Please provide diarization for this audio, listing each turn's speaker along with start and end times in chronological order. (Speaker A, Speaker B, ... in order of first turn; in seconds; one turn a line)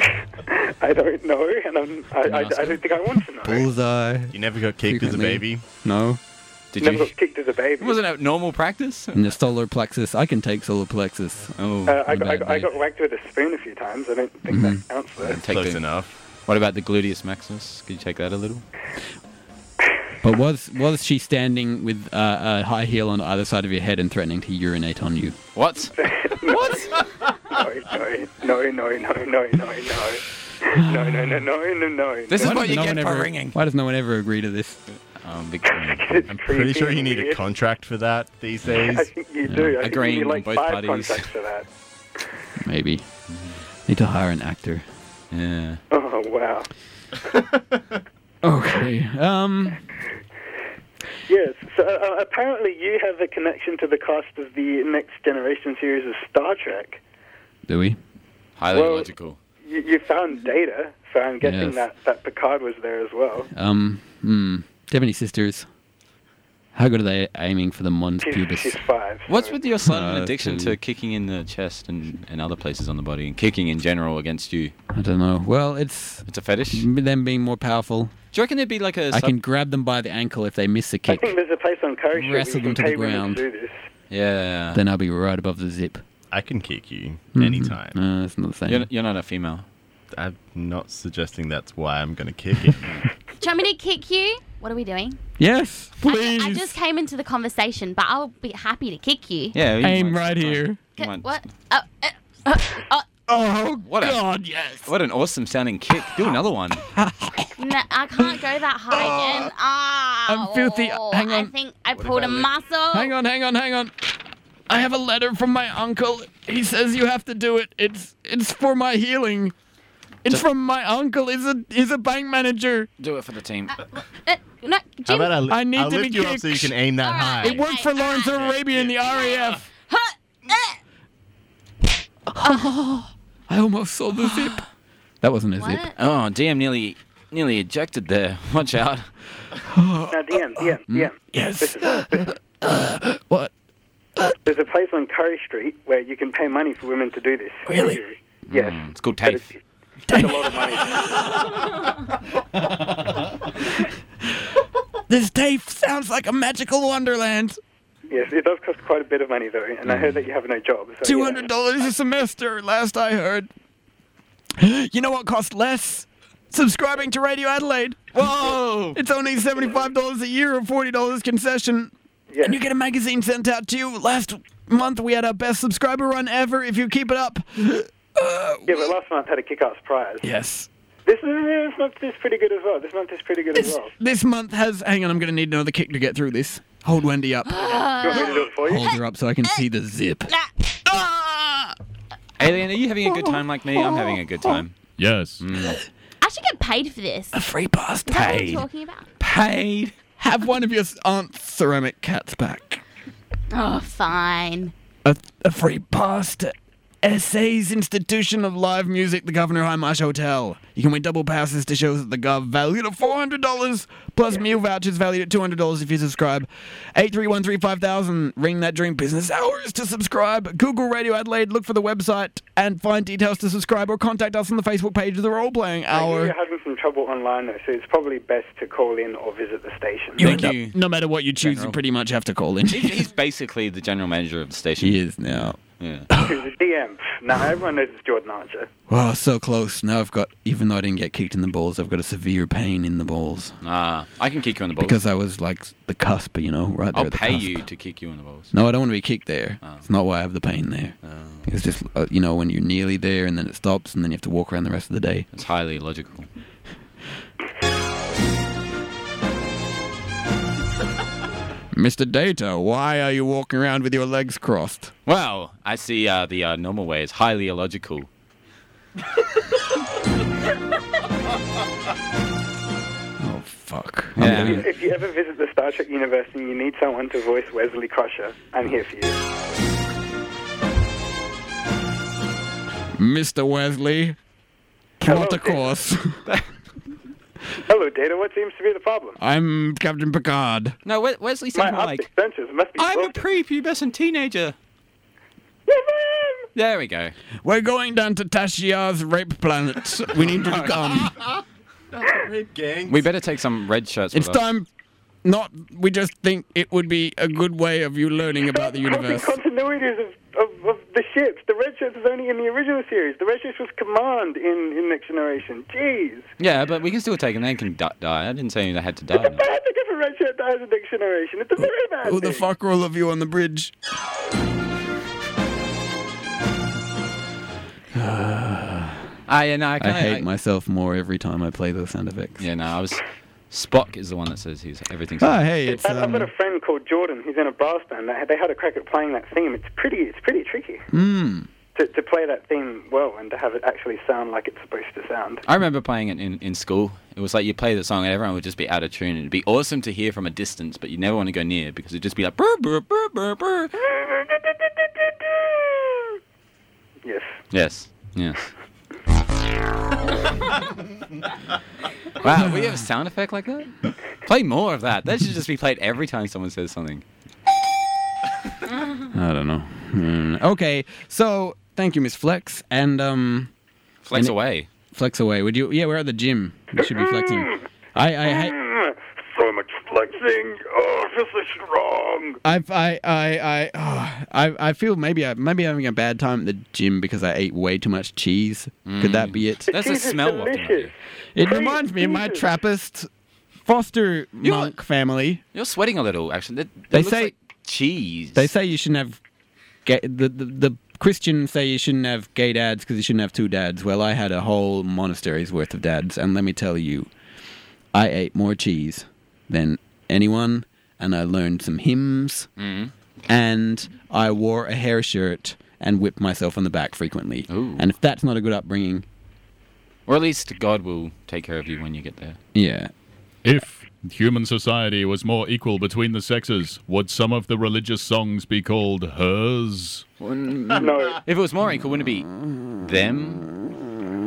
Speaker A: 0.5-3.7
Speaker B: 2.2-2.8
Speaker C: 3.4-6.2
Speaker D: 4.3-5.6
Speaker B: 6.7-7.1
Speaker A: 6.8-8.0
Speaker B: 7.8-9.2
Speaker C: 9.1-11.5
Speaker B: 11.6-12.0
Speaker A: 11.9-15.4
Speaker C: 12.1-12.7
Speaker C: 14.5-14.8
Speaker B: 15.2-15.8
Speaker D: 15.4-16.1
Speaker B: 16.5-18.6
Speaker C: 20.2-25.4
Speaker B: 25.6-26.9
Speaker A: 26.0-32.8
Speaker C: 30.8-31.4
Speaker B: 32.3-33.6
Speaker C: 32.4-34.8
Speaker B: 34.9-36.2
Speaker A: 35.8-37.4
Speaker D: 36.3-39.1
Speaker A: 38.9-41.7
Speaker C: 39.5-39.7
Speaker B: 39.8-41.3
Speaker C: 42.6-43.0
Speaker B: 43.3-43.6
Speaker C: 43.9-44.9
Speaker B: 45.3-45.8
Speaker A: 45.9-46.7
Speaker C: 48.4-49.8
Speaker A: 51.3-57.0
Speaker C: 57.7-58.0
Speaker B: 58.6-59.4
Speaker A: 58.7-59.1
Speaker A: 59.6-63.5
Speaker C: 61.4-61.8
Speaker C: 63.5-65.7
Speaker C: 66.8-68.8
Speaker A: 68.2-69.6
Speaker B: 69.3-74.7
Speaker C: 69.8-70.8
Speaker C: 74.9-78.1
Speaker B: 76.3-76.9
Speaker B: 78.3-79.3
Speaker C: 79.1-81.3
Speaker A: 81.1-83.7
Speaker C: 82.1-83.4
Speaker B: 84.1-84.8
Speaker C: 84.7-86.0
Speaker D: 86.3-88.0
Speaker C: 87.3-88.9
Speaker B: 88.7-89.7
Speaker D: 90.1-93.0
Speaker E: 93.4-95.2
Speaker C: 95.4-96.8
Speaker E: 96.0-99.6
Speaker B: 99.5-101.3
Speaker C: 99.8-100.8
Speaker E: 101.0-103.1
Speaker C: 103.3-104.9
Speaker B: 103.9-104.2
Speaker B: 104.8-106.8
Speaker C: 107.0-107.5
Speaker E: 107.6-113.1
Speaker C: 108.9-109.5
Speaker C: 110.3-111.5
Speaker B: 112.0-112.4
Speaker C: 112.9-113.9
Speaker C: 114.7-119.5
Speaker C: 120.2-122.9
Speaker B: 123.0-123.8
Speaker E: 124.0-125.4
Speaker D: 125.1-127.6
Speaker C: 125.5-126.8
Speaker E: 127.0-130.8
Speaker C: 127.4-129.7
Speaker C: 132.3-134.6
Speaker E: 132.4-132.8
Speaker C: 135.2-135.9
Speaker E: 135.6-136.0
Speaker B: 136.0-139.1
Speaker C: 139.7-143.5
Speaker A: 140.1-142.3
Speaker A: 144.5-149.6
Speaker C: 147.7-148.0
Speaker B: 148.5-149.4
Speaker C: 150.1-151.5
Speaker A: 150.1-151.4
Speaker C: 155.1-157.6
Speaker A: 158.1-161.5
Speaker C: 161.0-163.5
Speaker C: 164.6-168.1
Speaker B: 168.1-169.0
Speaker C: 168.9-178.9
Speaker A: 172.3-172.6
Speaker A: 178.7-180.2
Speaker C: 180.2-180.7
Speaker A: 181.1-183.9
Speaker C: 183.6-191.8
Speaker E: 187.5-188.5
Speaker A: 188.0-188.9
Speaker B: 192.4-194.7
Speaker C: 193.1-194.2
Speaker F: 195.0-195.4
Speaker B: 195.4-195.8
Speaker E: 196.2-197.3
Speaker C: 197.3-198.6
Speaker E: 198.1-199.1
Speaker B: 198.2-198.6
Speaker B: 199.2-199.9
Speaker C: 200.2-202.8
Speaker E: 203.5-204.7
Speaker C: 205.1-226.3
Speaker A: 225.9-230.4
Speaker C: 230.2-233.1
Speaker B: 230.2-230.8
Speaker B: 231.4-231.8
Speaker B: 232.7-236.1
Speaker C: 234.8-235.6
Speaker C: 236.1-236.4
Speaker A: 236.3-238.7
Speaker C: 238.9-243.6
Speaker B: 243.6-245.0
Speaker C: 244.8-247.6
Speaker B: 246.9-248.5
Speaker C: 248.5-250.9
Speaker B: 251.0-251.5
Speaker C: 251.5-255.3
Speaker B: 255.3-256.3
Speaker C: 261.7-264.9
Speaker B: 265.1-268.1
Speaker C: 273.2-274.7
Speaker B: 274.2-274.7
Speaker A: 274.3-279.2
Speaker C: 283.0-284.2
Speaker C: 285.0-286.2
Speaker A: 285.0-285.7
Speaker A: 287.7-289.2
Speaker C: 289.2-290.8
Speaker B: 290.9-292.1
Speaker A: 291.5-293.2
Speaker B: 292.8-294.6
Speaker A: 295.7-296.5
Speaker B: 296.6-297.1
Speaker C: 297.4-301.1
Speaker D: 301.9-303.1
Speaker B: 302.9-304.4
Speaker C: 304.1-304.7
Speaker C: 305.2-309.4
Speaker A: 308.5-316.3
Speaker B: 316.4-319.4
Speaker A: 319.2-322.4
Speaker C: 321.6-323.7
Speaker C: 327.9-329.0
Speaker B: 329.3-330.2
Speaker C: 329.8-332.4
Speaker B: 332.4-335.5
Speaker C: 335.2-336.3
Speaker A: 335.7-340.9
Speaker C: 340.9-341.5
Speaker A: 341.8-345.4
Speaker B: 345.5-353.7
Speaker A: 357.1-357.3
Speaker B: 357.5-358.5
Speaker B: 362.2-367.0
Speaker C: 369.1-373.5
Speaker B: 374.1-374.7
Speaker C: 374.9-378.6
Speaker A: 376.8-377.6
Speaker A: 378.2-382.4
Speaker C: 382.4-389.7
Speaker B: 388.9-390.9
Speaker A: 389.7-392.4
Speaker C: 391.4-393.1
Speaker C: 393.7-395.4
Speaker B: 394.4-394.7
Speaker B: 395.5-398.5
Speaker C: 396.9-397.3
Speaker C: 398.4-399.2
Speaker C: 399.9-407.1
Speaker C: 407.9-412.5
Speaker B: 412.6-412.9
Speaker C: 413.3-419.1
Speaker B: 417.5-417.8
Speaker B: 420.1-422.4
Speaker C: 422.5-422.9
Speaker F: 423.4-430.1
Speaker B: 430.2-432.3
Speaker A: 430.8-431.2
Speaker B: 432.8-433.4